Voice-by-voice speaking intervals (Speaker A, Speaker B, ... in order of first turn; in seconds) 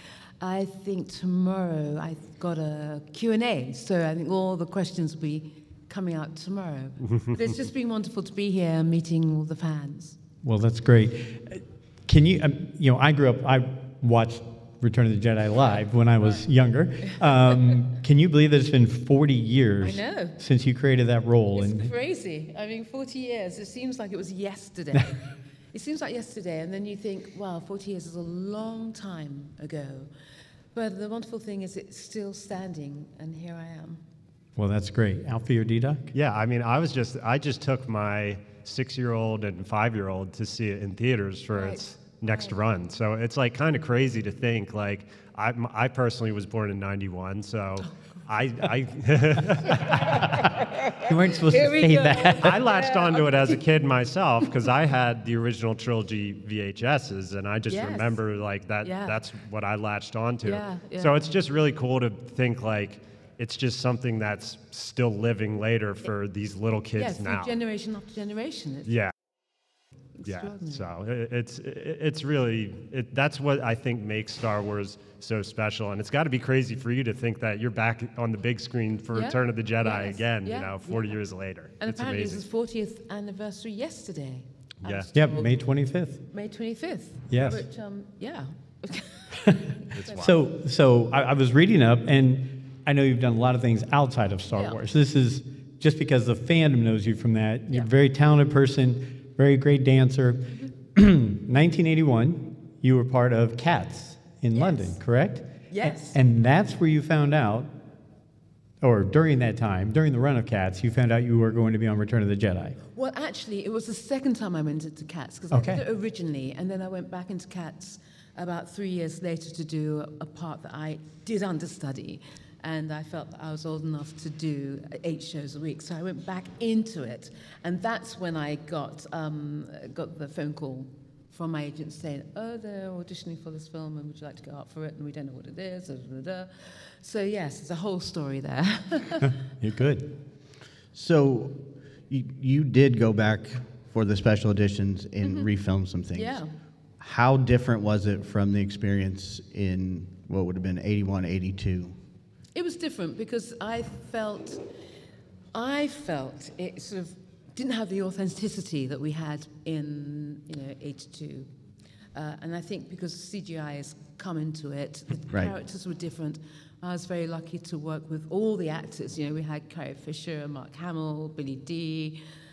Speaker A: 0.4-10.2, 17.1-17.7, 19.8-20.4, 21.6-30.1, 30.7-34.0, 41.5-42.6, 47.8-48.2, 49.6-53.6, 57.7-58.2, 58.8-59.2, 60.4-61.3, 67.0-69.0, 70.2-70.9, 79.1-85.5, 86.3-90.3, 94.5-94.8, 104.5-105.0, 105.7-106.2, 112.9-139.3, 145.2-145.5, 146.1-146.5, 152.6-154.6, 155.5-161.5, 162.2-172.2
Speaker B: 7.0-7.4, 36.1-50.2, 52.4-67.5, 68.9-69.1, 70.2-82.4, 84.8-85.1, 90.0-90.3
Speaker C: 10.4-21.9, 34.6-36.1, 51.0-52.7, 85.1-86.2, 87.3-87.6, 90.2-107.7, 108.8-112.8, 115.5-115.8, 139.2-140.1
Speaker D: 140.9-146.4, 147.0-152.0